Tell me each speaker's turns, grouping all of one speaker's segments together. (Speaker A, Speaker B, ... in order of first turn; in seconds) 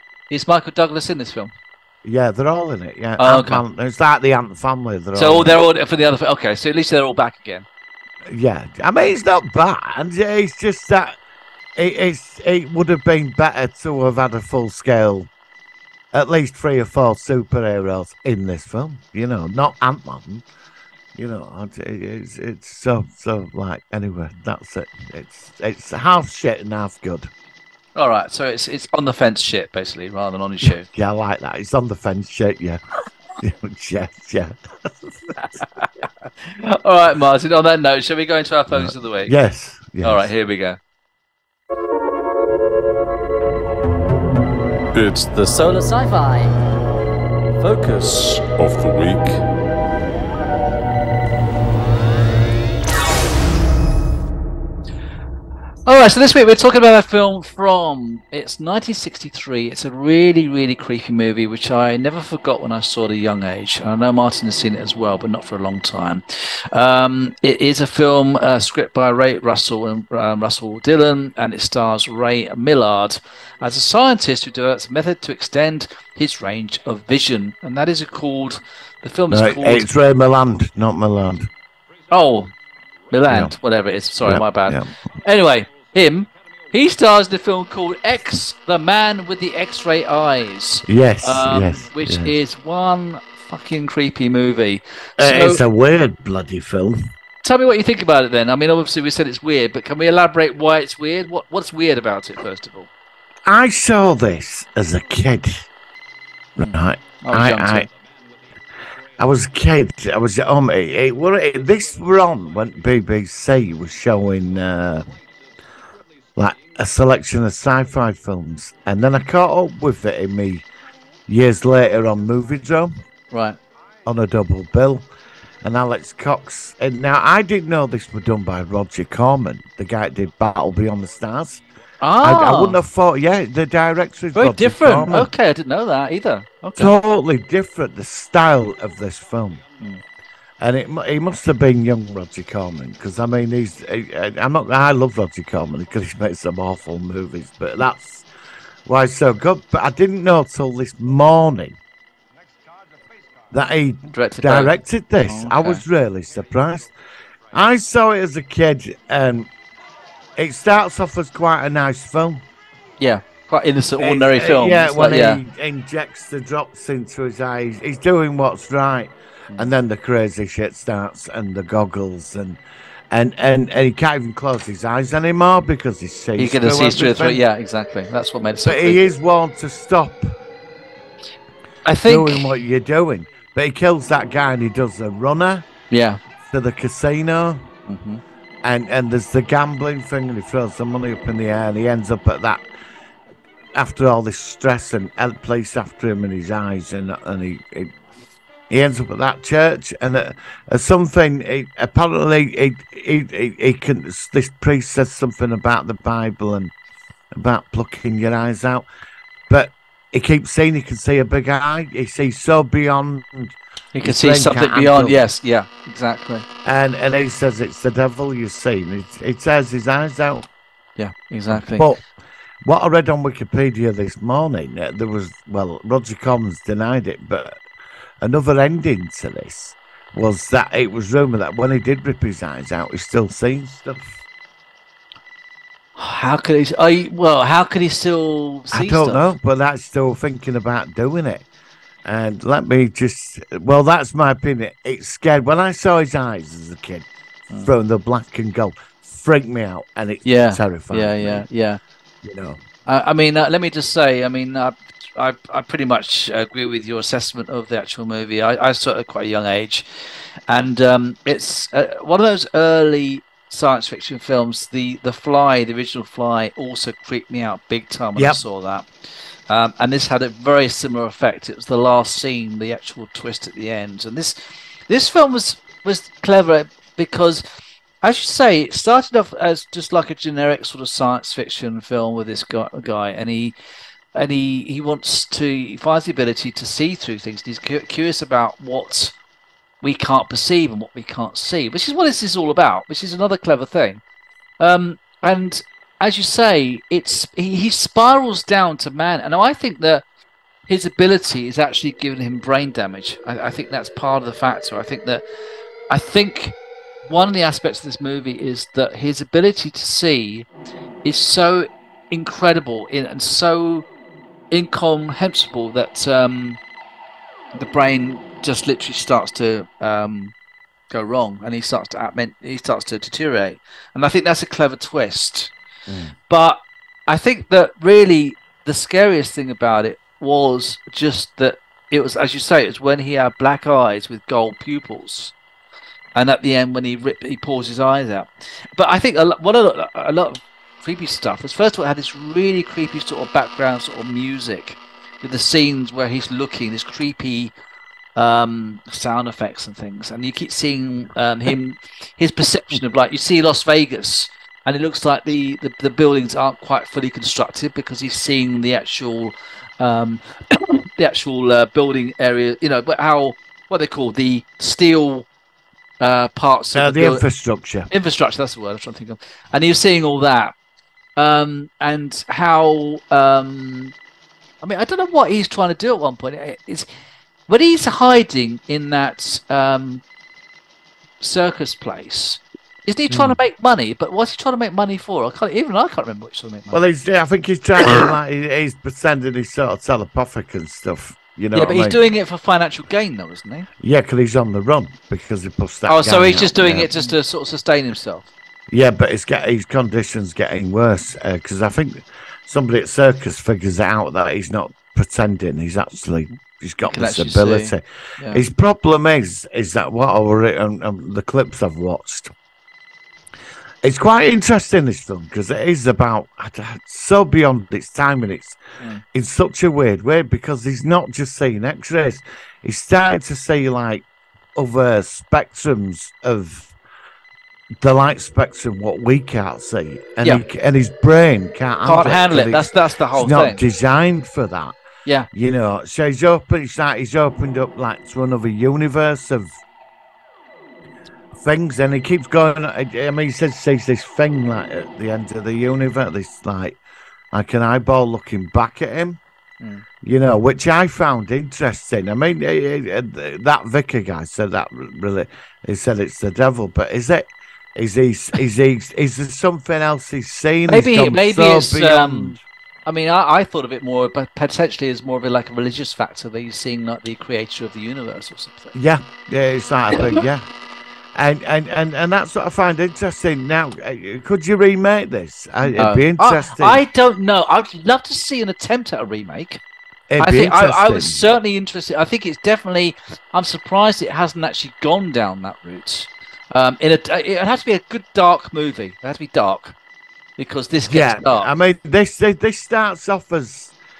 Speaker A: 0.3-1.5, 3.2-3.6, 5.1-7.7, 27.9-30.9, 35.4-39.3, 40.0-40.8, 45.4-46.5, 55.9-79.9, 82.1-82.5, 83.1-95.6, 97.4-102.9, 106.6-107.9, 123.3-123.6, 132.0-132.8, 134.3-136.9, 154.1-155.8, 163.0-165.4, 176.4-179.1, 181.8-182.5, 185.9-186.2, 187.9-188.2, 213.9-216.4, 221.0-221.9, 235.9-239.3, 250.2-251.8, 252.8-259.8, 260.5-268.9, 269.5-277.4, 278.0-283.5, 284.1-289.1, 289.8-294.0, 294.6-300.0, 300.7-305.2, 305.9-310.5, 311.0-313.9, 314.5-316.6, 317.5-320.3, 320.9-325.5, 326.3-335.3, 336.1-347.5, 348.1-365.3, 366.0-367.2, 367.9-370.5, 371.1-373.9, 374.6-376.9, 377.5-380.0, 381.2-386.8, 391.5-393.7, 395.9-398.3, 406.9-408.4, 431.8-433.6, 460.7-468.7, 475.6-479.6, 480.2-489.8, 490.4-491.5
Speaker B: 2.0-5.6, 8.3-11.2, 11.8-15.3, 16.1-20.4, 21.1-27.3, 30.6-32.8, 33.4-35.1, 38.7-40.3, 79.3-81.5, 83.3-83.5, 84.2-84.9, 90.8-92.3, 95.2-97.0, 103.4-105.6, 106.6-107.9, 109.2-115.0, 116.3-120.6, 121.3-123.0, 124.0-125.1, 125.6-131.6, 132.2-135.3, 136.8-139.6, 140.6-148.2, 148.8-151.8, 153.5-156.9, 157.5-159.5, 160.4-162.4, 164.0-172.6, 173.1-177.4, 178.6-180.3, 182.0-185.7, 186.5-187.7, 188.6-192.6, 193.7-197.9, 198.7-206.7, 207.3-208.9, 209.5-215.2, 216.6-220.5, 221.5-222.0, 222.6-227.6, 228.2-234.2, 238.7-241.4, 242.0-247.1, 247.6-251.4, 252.2-252.6, 325.9-326.1, 366.7-367.9, 383.1-383.4, 386.7-392.0, 393.8-396.9, 398.7-412.3, 413.8-418.6, 419.1-426.7, 427.8-434.7, 435.3-439.6, 441.3-446.8, 447.3-449.2, 450.0-462.4, 468.7-470.4, 471.1-476.8, 480.1-481.2, 490.9-493.7
Speaker C: 44.9-45.5, 47.7-49.4